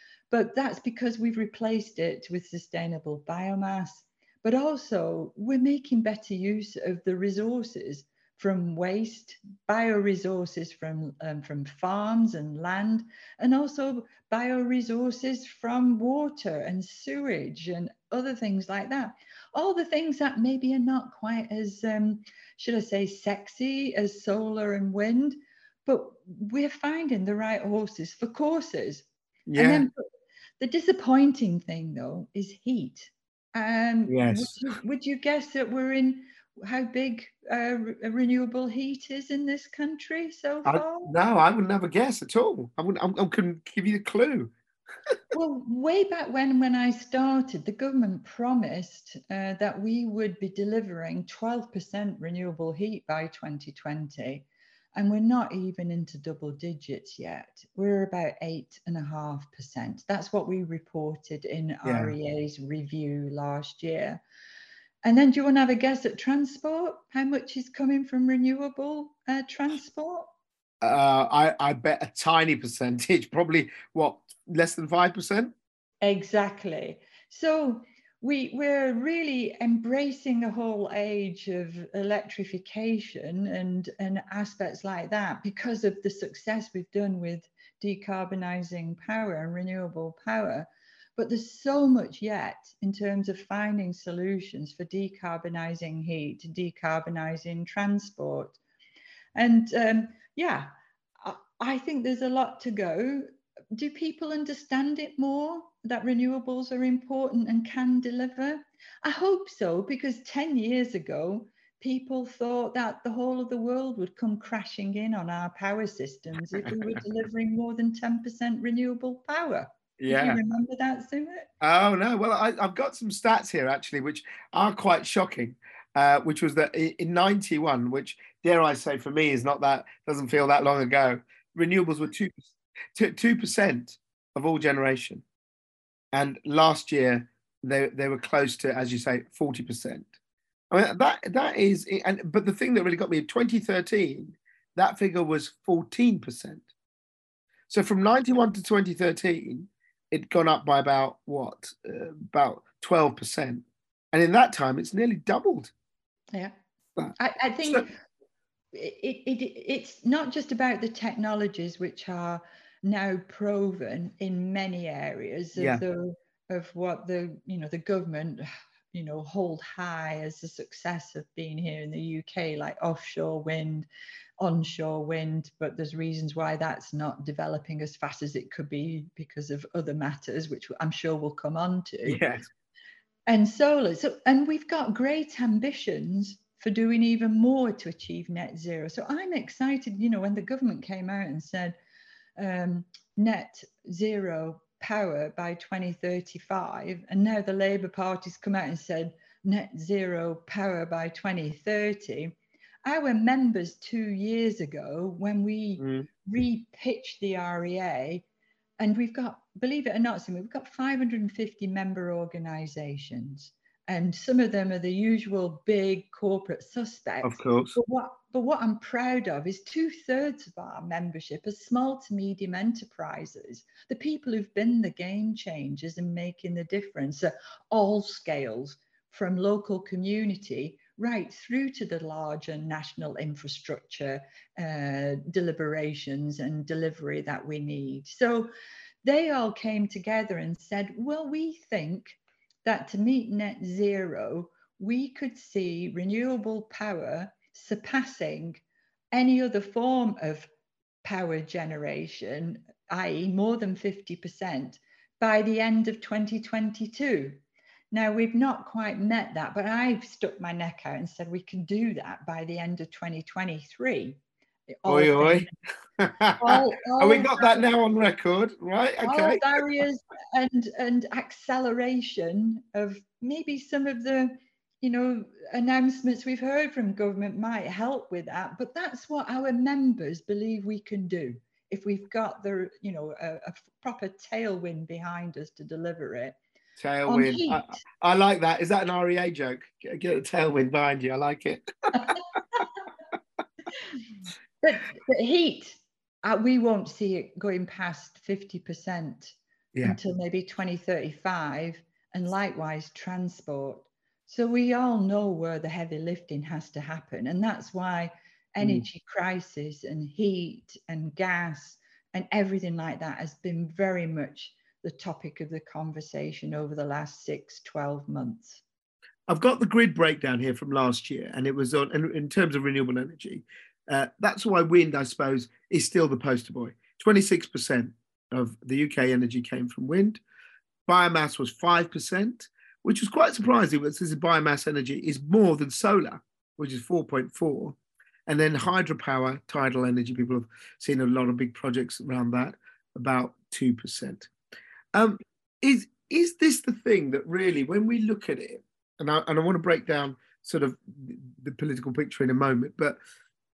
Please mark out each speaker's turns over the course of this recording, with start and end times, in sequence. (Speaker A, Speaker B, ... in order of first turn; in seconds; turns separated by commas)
Speaker A: 0.3-30.1, Speaker B: 29.5-29.9, Speaker A: 30.6-41.1, Speaker B: 34.1-34.6, Speaker B: 40.6-44.5, Speaker A: 45.3-64.2, Speaker B: 61.8-62.1, Speaker A: 65.0-70.3, Speaker B: 70.8-75.5, Speaker A: 76.0-98.6, Speaker A: 99.3-121.5, Speaker B: 116.5-116.8, Speaker B: 120.0-120.4, Speaker B: 121.6-132.4, Speaker B: 132.9-135.2, Speaker B: 136.1-140.1, Speaker B: 140.7-146.7, Speaker B: 147.7-155.7, Speaker B: 157.0-157.8, Speaker A: 157.2-157.9, Speaker A: 158.7-173.9, Speaker B: 165.5-165.8, Speaker A: 174.4-182.2, Speaker B: 182.1-182.5, Speaker A: 183.3-191.8, Speaker A: 192.4-202.3, Speaker A: 202.8-208.2, Speaker B: 205.8-206.1, Speaker A: 208.8-238.5, Speaker B: 217.2-217.8, Speaker A: 239.0-248.6, Speaker A: 249.1-250.5, Speaker A: 251.0-257.4, Speaker A: 257.9-264.2, Speaker A: 264.7-265.5, Speaker B: 264.9-269.6, Speaker A: 266.4-267.7, Speaker A: 269.0-286.4, Speaker B: 286.8-292.6, Speaker A: 287.1-287.8, Speaker A: 294.6-318.6, Speaker B: 308.6-308.8, Speaker B: 319.3-330.2, Speaker B: 330.9-344.3, Speaker B: 344.9-353.0